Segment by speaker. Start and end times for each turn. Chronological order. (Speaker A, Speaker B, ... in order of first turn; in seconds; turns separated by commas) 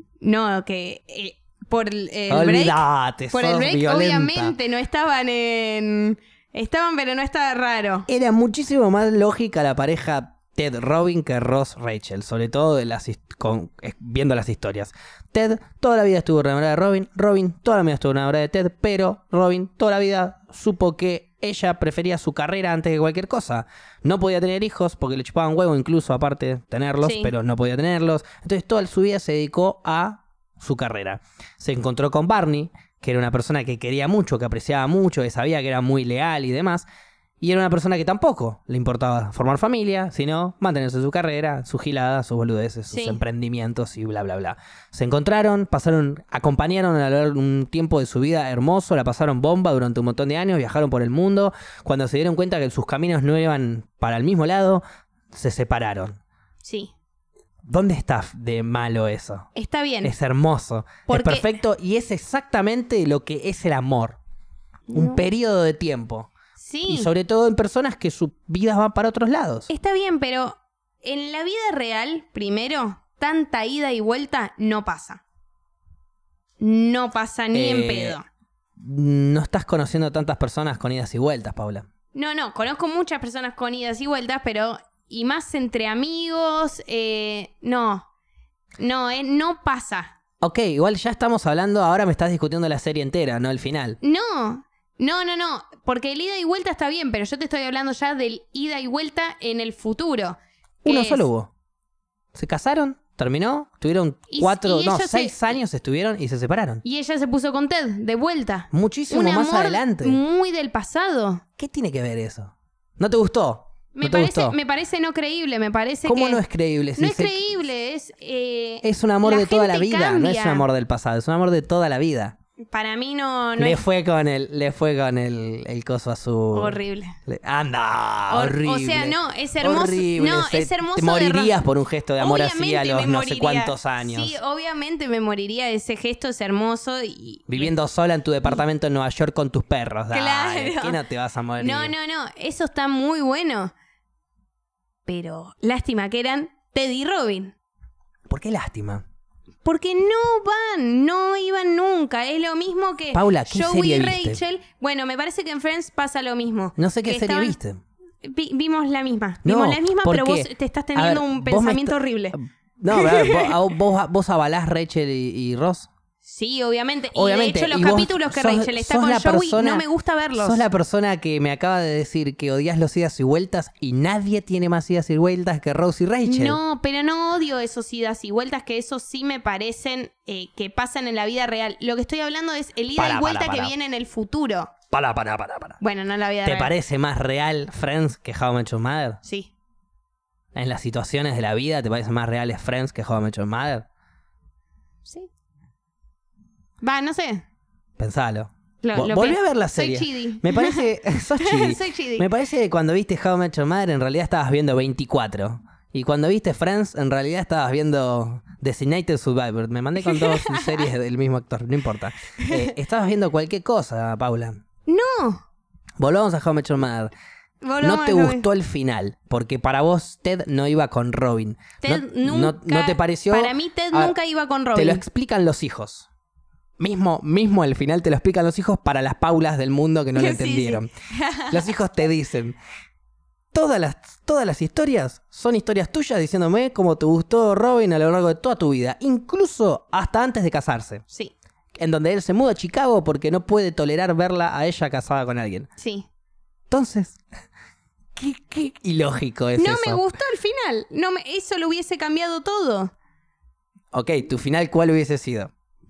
Speaker A: 0.2-8.1, Speaker B: 2.3-4.5, Speaker B: 8.1-36.9, Speaker A: 27.0-27.3, Speaker B: 37.4-56.2, Speaker A: 42.9-43.2, Speaker A: 56.6-56.9, Speaker B: 57.7-59.5, Speaker A: 59.5-60.1, Speaker B: 60.0-64.2, Speaker A: 61.1-61.5, Speaker A: 64.9-65.2, Speaker B: 64.9-66.3, Speaker A: 66.6-67.1, Speaker B: 66.9-69.7, Speaker A: 69.7-75.2, Speaker A: 76.6-78.2, Speaker B: 77.5-78.2, Speaker B: 78.8-81.9, Speaker A: 82.1-88.1, Speaker A: 88.8-90.2, Speaker B: 90.4-94.0, Speaker A: 94.0-101.3, Speaker B: 100.8-101.5, Speaker B: 102.3-106.8, Speaker A: 104.3-105.6, Speaker A: 106.8-111.4, Speaker B: 108.7-110.2, Speaker B: 111.6-114.6, Speaker A: 113.9-116.4, Speaker B: 116.0-117.4, Speaker A: 117.0-120.7, Speaker B: 118.8-122.4, Speaker A: 122.6-123.8, Speaker B: 123.6-134.4, Speaker A: 126.5-127.2, Speaker A: 128.3-131.6, Speaker A: 132.2-137.7, Speaker B: 137.5-141.9, Speaker A: 140.1-141.0, Speaker A: 141.6-143.7, Speaker A: 145.1-147.6, Speaker B: 148.3-149.1, Speaker A: 149.6-157.6, Speaker B: 153.1-154.4, Speaker B: 156.8-157.8, Speaker A: 158.2-162.4, Speaker B: 159.4-165.9, Speaker A: 162.9-163.6, Speaker A: 166.2-170.6, Speaker B: 167.1-169.8, Speaker B: 170.4-176.6, Speaker A: 176.3-184.7, Speaker B: 182.9-183.7, Speaker B: 184.9-185.8, Speaker A: 185.8-186.7, Speaker B: 186.4-189.2, Speaker A: 189.2-189.5, Speaker B: 190.5-193.9, Speaker A: 195.1-195.3, Speaker A: 196.8-197.4, Speaker B: 198.0-214.6, Speaker A: 198.8-200.8, Speaker A: 201.4-202.3, Speaker A: 210.0-210.9, Speaker A: 212.4-212.7, Speaker A: 214.9-215.4, Speaker B: 216.0-217.1, Speaker A: 217.6-218.4, Speaker B: 217.8-224.1, Speaker A: 221.8-225.0, Speaker B: 224.7-226.1, Speaker B: 226.8-230.9, Speaker A: 230.2-231.7, Speaker B: 231.5-232.6, Speaker B: 233.5-241.0, Speaker B: 241.8-245.7, Speaker A: 245.8-246.1, Speaker B: 246.7-247.2, Speaker B: 248.2-250.1, Speaker A: 249.6-252.9, Speaker B: 253.9-255.5